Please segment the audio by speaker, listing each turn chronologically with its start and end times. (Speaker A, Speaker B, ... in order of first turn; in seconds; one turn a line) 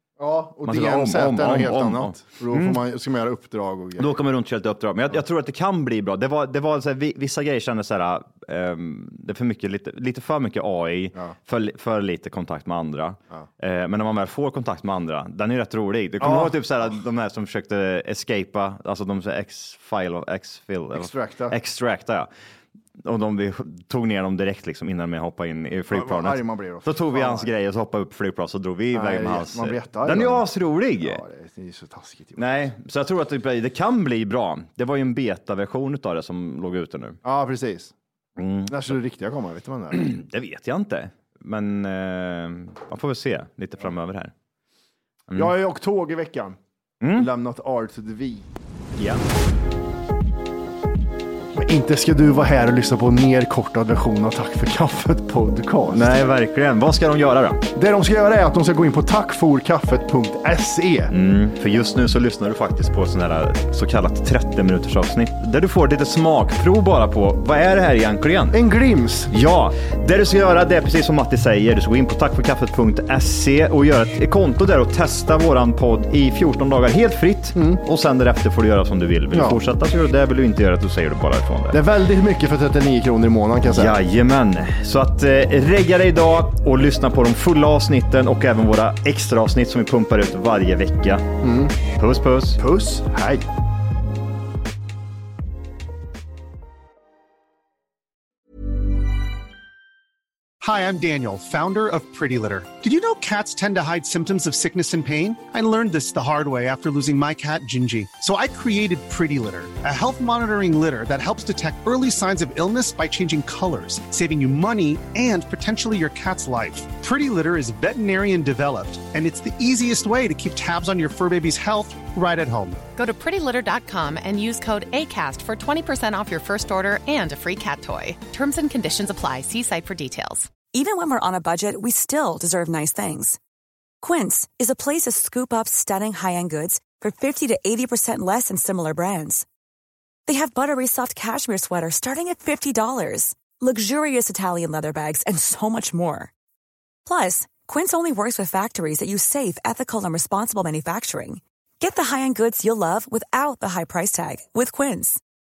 Speaker A: 0.2-4.2
Speaker B: 0.6-2.8
Speaker B: 4.0-22.3
Speaker A: 16.2-16.5
Speaker A: 20.9-21.6
Speaker B: 23.0-31.2
Speaker A: 25.9-27.5
Speaker A: 28.9-32.7
Speaker B: 32.4-37.2
Speaker A: 37.2-37.9
Speaker B: 38.4-38.9
Speaker A: 38.7-40.0
Speaker B: 39.9-44.3
Speaker A: 45.3-46.6
Speaker B: 47.0-47.3
Speaker A: 47.1-48.5
Speaker B: 49.0-49.2
Speaker A: 51.5-56.2
Speaker B: 55.9-57.6
Speaker A: 57.7-61.1
Speaker B: 61.1-68.6
Speaker A: 68.5-69.3
Speaker B: 69.3-81.8
Speaker A: 77.5-77.8
Speaker A: 79.3-79.6
Speaker A: 81.7-84.0
Speaker B: 83.7-91.2
Speaker A: 91.4-91.8
Speaker B: 91.9-92.6
Speaker A: 92.6-93.5
Speaker C: 100.6-122.8
Speaker D: 122.9-130.5
Speaker E: 130.7-133.4
Speaker E: 134.0-139.4
Speaker E: 140.3-146.3
Speaker E: 147.1-155.2